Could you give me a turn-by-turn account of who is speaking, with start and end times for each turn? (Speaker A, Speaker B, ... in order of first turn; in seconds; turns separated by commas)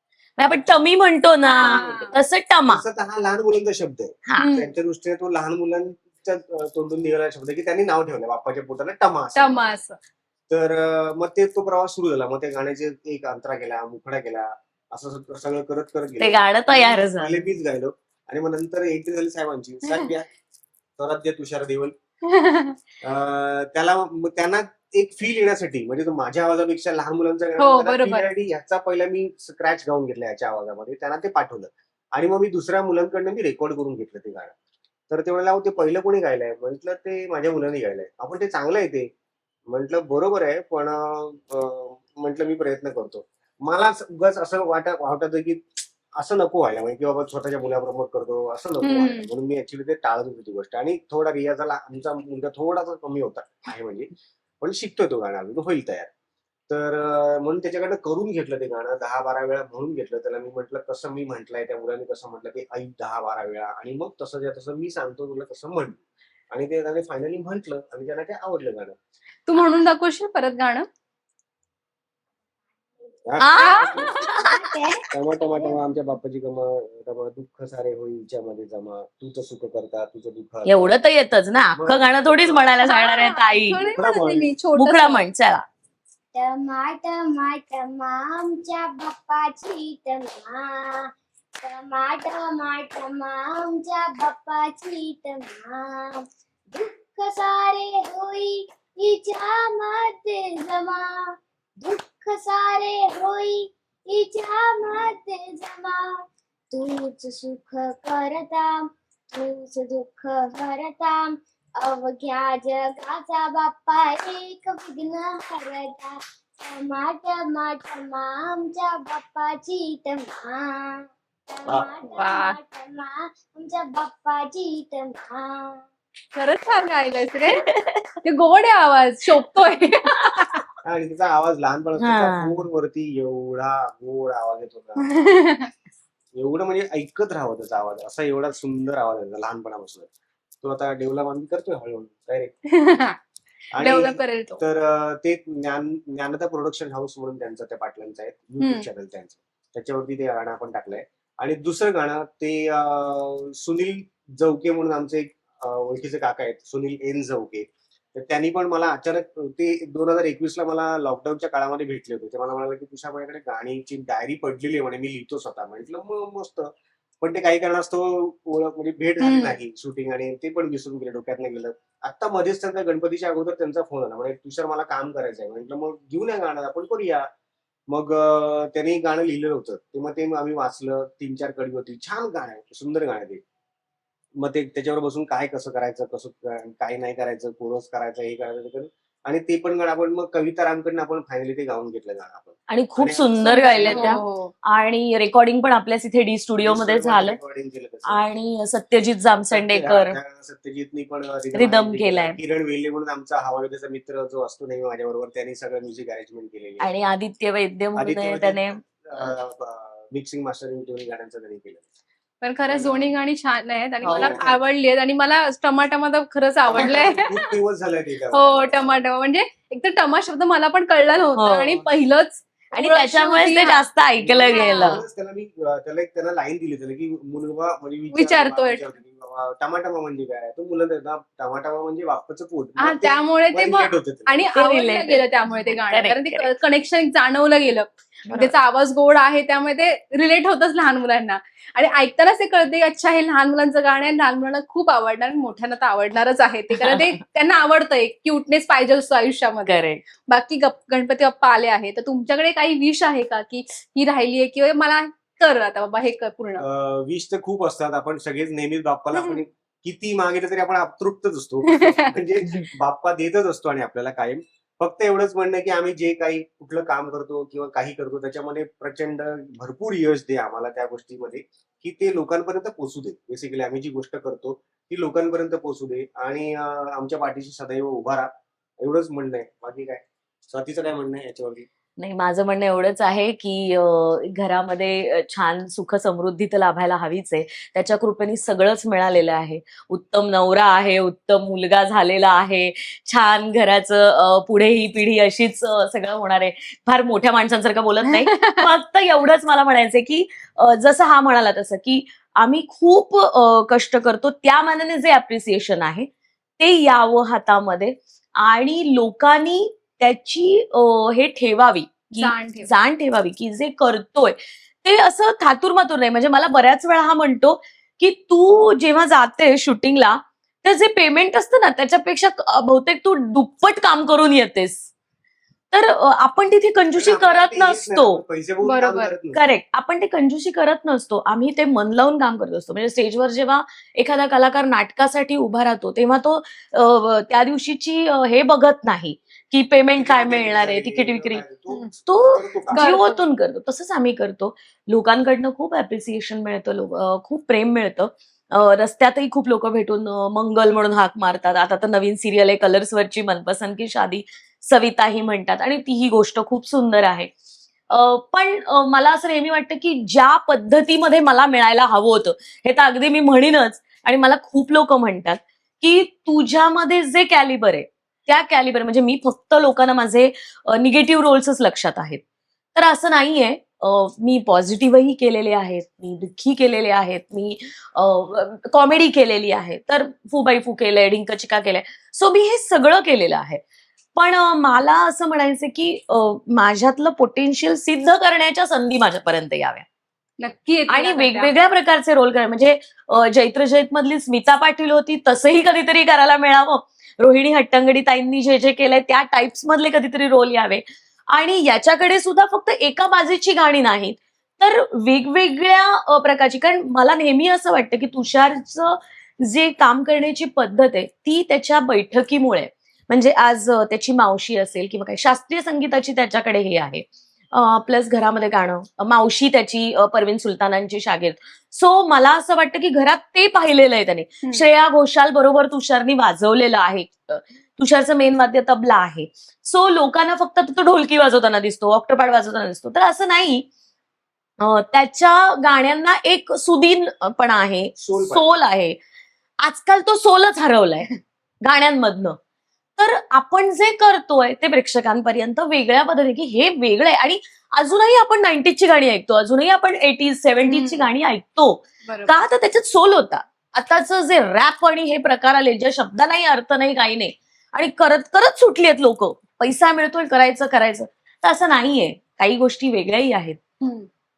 Speaker A: 0.4-2.8, Speaker B: 0.5-0.7, Speaker C: 1.5-2.1, Speaker B: 1.6-2.0, Speaker B: 2.7-9.6, Speaker C: 4.4-4.7, Speaker C: 9.4-10.0, Speaker B: 10.5-20.3, Speaker A: 16.2-17.5, Speaker B: 21.0-21.9, Speaker C: 22.3-22.8, Speaker B: 23.0-34.5, Speaker C: 27.6-28.3, Speaker B: 35.1-39.1, Speaker B: 39.7-56.1, Speaker C: 48.8-49.3, Speaker B: 56.7-69.0, Speaker C: 69.5-70.9, Speaker B: 73.2-74.2, Speaker A: 73.4-74.6, Speaker C: 73.6-74.3, Speaker D: 74.0-75.8, Speaker B: 75.1-81.0, Speaker A: 80.7-83.9, Speaker B: 81.8-82.8, Speaker C: 82.8-85.2, Speaker B: 84.0-84.5, Speaker A: 84.8-85.6, Speaker D: 86.3-91.1, Speaker D: 91.6-101.0, Speaker D: 101.8-106.0, Speaker D: 106.7-108.8, Speaker D: 109.3-125.8, Speaker C: 122.2-122.6, Speaker C: 126.3-127.6, Speaker A: 127.7-128.0, Speaker C: 128.2-130.6, Speaker B: 130.8-135.2, Speaker A: 132.0-132.6, Speaker C: 135.0-135.7, Speaker B: 136.3-140.1, Speaker B: 140.6-142.5, Speaker C: 142.7-143.2, Speaker B: 143.7-177.3, Speaker C: 143.8-144.6, Speaker C: 148.6-148.9, Speaker C: 169.2-169.6, Speaker B: 177.9-183.4, Speaker B: 184.4-194.2, Speaker A: 192.7-197.4, Speaker C: 193.4-194.5, Speaker B: 196.6-198.3, Speaker A: 198.1-200.2, Speaker B: 199.5-206.9, Speaker A: 201.5-202.4, Speaker A: 206.8-209.3, Speaker B: 208.0-211.9, Speaker C: 212.4-217.5, Speaker B: 212.7-213.1, Speaker A: 214.0-214.4, Speaker B: 214.1-214.6, Speaker B: 216.6-219.0, Speaker C: 218.3-223.8, Speaker A: 221.4-221.8, Speaker A: 222.7-225.0, Speaker B: 224.2-234.5, Speaker C: 224.5-225.0, Speaker C: 228.1-228.8, Speaker C: 232.8-256.6, Speaker A: 234.5-236.5, Speaker A: 238.3-238.6, Speaker A: 246.8-247.2, Speaker A: 249.7-250.0, Speaker B: 256.6-281.6, Speaker C: 259.1-259.4, Speaker C: 261.7-262.1, Speaker A: 282.0-324.9, Speaker C: 298.1-298.6, Speaker C: 312.1-312.7, Speaker A: 325.7-328.2, Speaker B: 326.9-329.4, Speaker C: 328.6-329.1, Speaker A: 329.3-341.4, Speaker B: 339.9-343.1, Speaker A: 342.1-357.3, Speaker C: 342.8-343.2, Speaker A: 357.9-372.2, Speaker A: 372.8-383.6, Speaker A: 384.1-389.9, Speaker C: 390.4-391.5, Speaker A: 390.9-433.7, Speaker A: 434.6-439.0, Speaker B: 438.0-438.5, Speaker A: 439.6-442.4, Speaker A: 443.0-463.6, Speaker C: 450.6-451.1, Speaker C: 452.0-452.3, Speaker C: 463.8-464.1